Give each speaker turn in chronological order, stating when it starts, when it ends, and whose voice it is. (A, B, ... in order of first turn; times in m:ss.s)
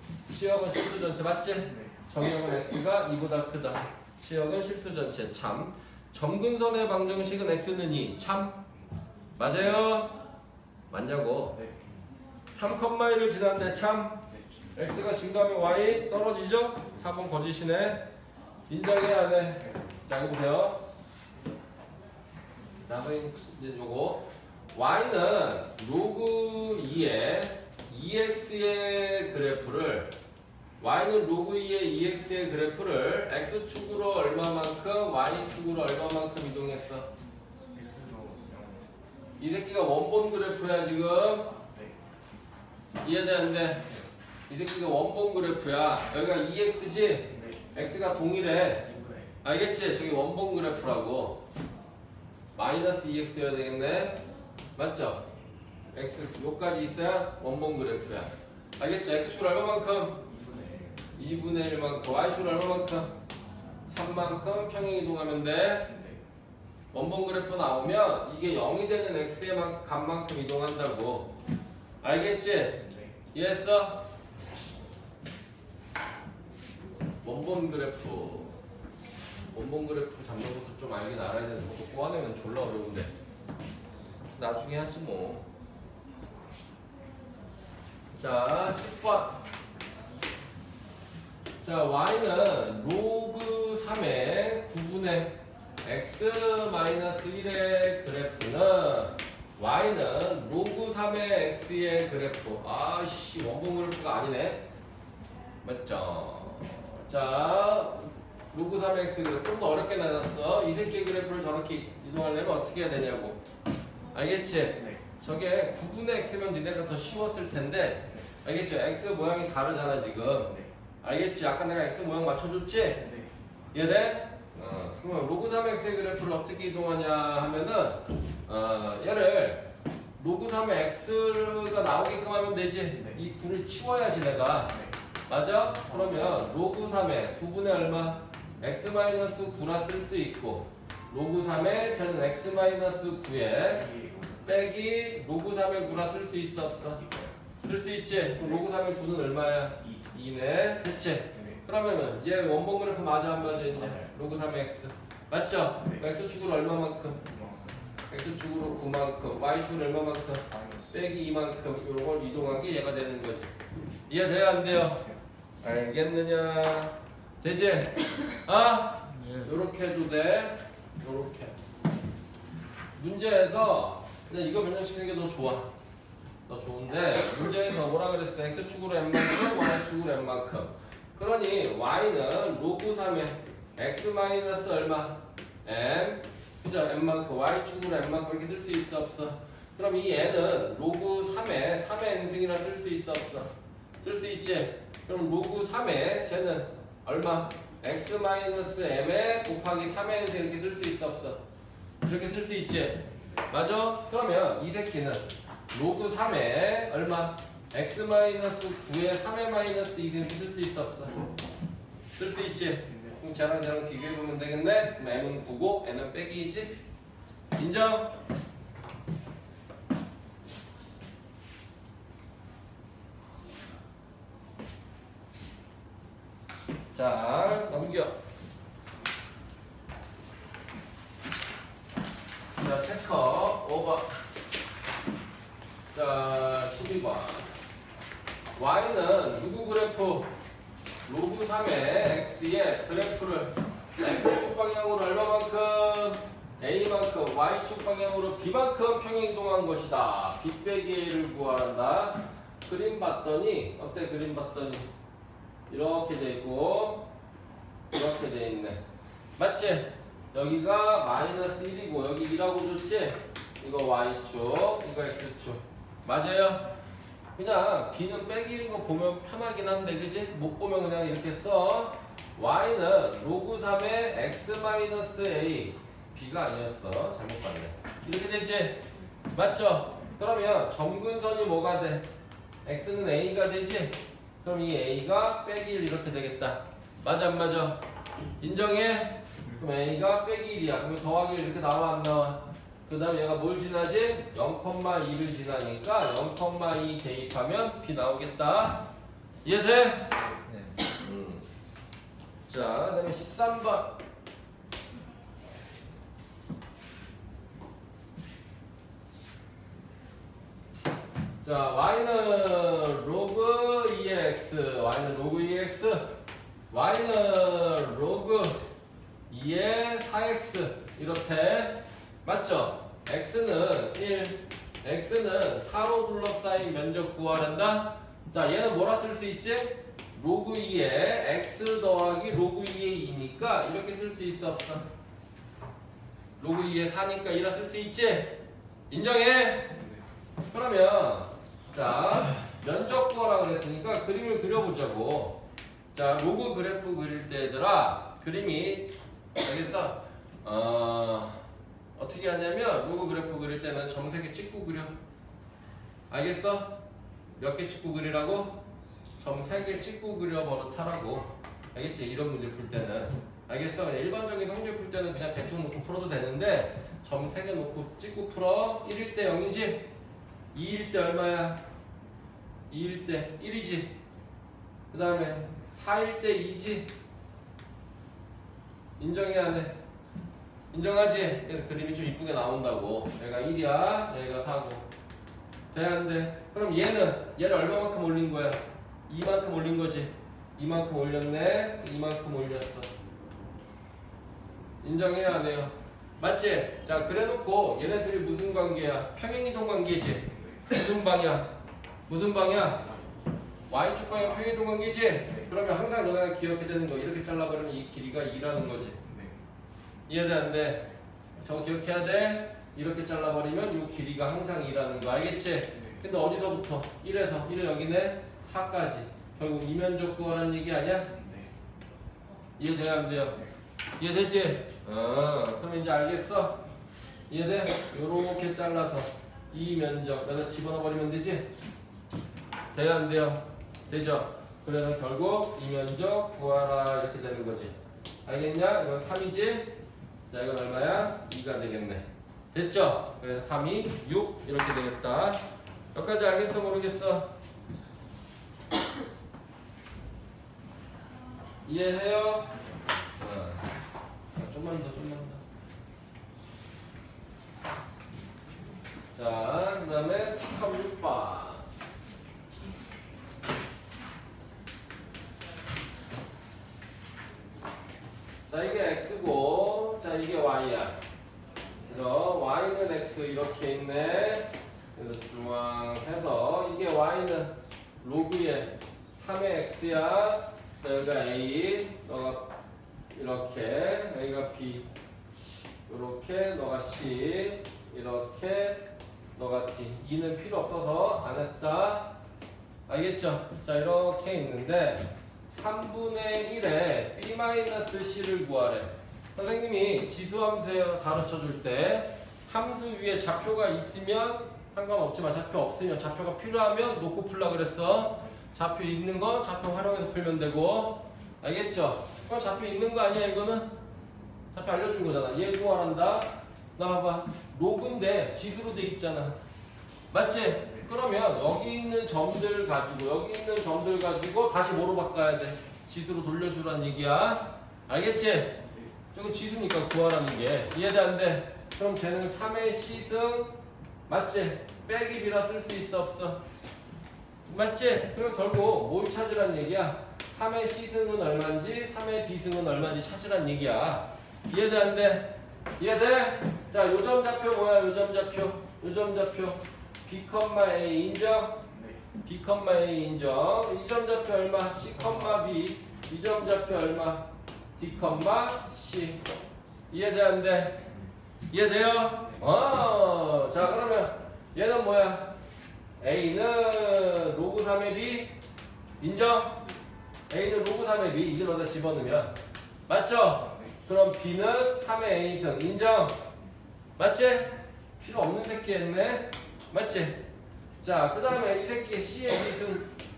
0:00.3-0:08.6 A
0:09.4-0:10.2 A
0:10.9-0:11.6 A
0:11.6-0:11.9 B
0:12.5-0:18.1 A
0:18.7-0:20.8 A
0:22.9-0:30.1 A
0:30.8-0:37.1 A
0:37.7-0:39.0 B
0:39.4-0:41.5 A
0:41.5-0:42.0 B
0:43.0-0:43.9 A
0:44.5-0:48.9 A
0:47.3-0:47.7 B
0:48.9-0:49.3 B
0:49.4-0:51.4 A
0:52.6-0:54.2 A
0:54.8-0:55.3 A
0:55.9-1:00.3 A
1:00.3-1:01.1 B
1:01.2-1:03.1 A
1:03.9-1:05.9 A
1:05.9-1:06.2 B
1:06.9-1:11.3 A
1:12.0-1:14.1 A
1:17.2-1:18.6 A
1:19.5-1:23.1 A
1:24.4-1:25.5 A
1:28.1-1:29.4 A
1:31.6-1:44.6 A
1:45.6-1:53.5 A
1:54.1-2:03.1 A
2:03.0-2:03.4 B
2:03.7-2:23.9 A
2:23.7-2:24.7 B
2:24.4-2:27.0 A
2:27.0-2:27.3 B
2:27.6-2:37.3 A
2:37.2-2:37.8 B
2:38.1-2:43.6 A
2:40.5-2:40.9 B
2:44.1-2:45.1 A
2:45.6-2:51.5 A
2:53.0-2:55.7 A
2:56.5-3:13.5 A
3:14.0-3:21.4 A
3:22.0-3:31.2 A
3:32.2-3:36.8 A
3:37.6-3:38.2 A
3:46.9-3:48.1 A
3:52.5-3:54.1 A
3:55.9-3:57.5 A
3:58.6-4:00.3 A
4:01.1-4:14.9 A
4:15.7-4:17.1 A
4:17.9-4:18.8 A
4:19.4-4:26.7 A
4:27.4-4:42.1 A
4:42.6-4:47.8 A
4:48.4-4:58.9 A
4:59.4-5:00.2 A
5:00.9-5:01.4 A
5:02.5-5:04.0 A
5:11.4-5:16.2 A
5:16.7-5:18.6 A
5:19.3-5:34.8 A
5:36.4-5:39.8 A
5:40.5-5:51.4 A
5:52.0-5:54.9 A
5:56.1-5:56.8 A
5:57.4-5:58.6 A
5:59.2-6:09.9 A
6:10.5-6:11.6 A
6:12.7-6:14.0 A
6:14.9-6:16.9 A
6:19.0-6:19.8 A
6:20.7-6:24.9 A
6:25.7-6:32.9 A
6:34.8-6:41.5 A
6:42.1-6:42.9 A
6:43.7-6:49.0 A
6:49.0-6:49.4 B
6:50.1-7:01.1 A
7:01.1-7:01.5 B
7:02.6-7:03.4 A
7:04.0-7:06.6 A
7:07.3-7:11.5 A
7:12.7-7:17.8 A
7:18.3-7:19.8 A
7:20.3-7:25.4 A
7:25.9-7:27.3 A
7:31.6-7:32.6 A
7:33.2-7:33.7 A
7:34.3-7:35.4 A
7:39.2-7:41.7 A
7:48.5-7:51.0 A
7:51.9-8:02.5 A
8:03.1-8:04.9 A
8:05.9-8:08.8 A
8:09.4-8:12.1 A
8:12.9-8:33.7 A
8:34.5-8:39.4 A
8:40.1-8:56.4 A
8:57.5-9:11.6 A
9:11.7-9:12.0 B
9:12.2-9:19.3 A
9:19.9-9:20.9 A
9:21.5-9:25.4 A
9:26.0-9:28.3 A
9:29.0-9:29.7 A
9:30.3-9:32.4 A
9:32.9-9:36.2 A
9:37.0-9:40.2 A
9:40.8-9:42.9 A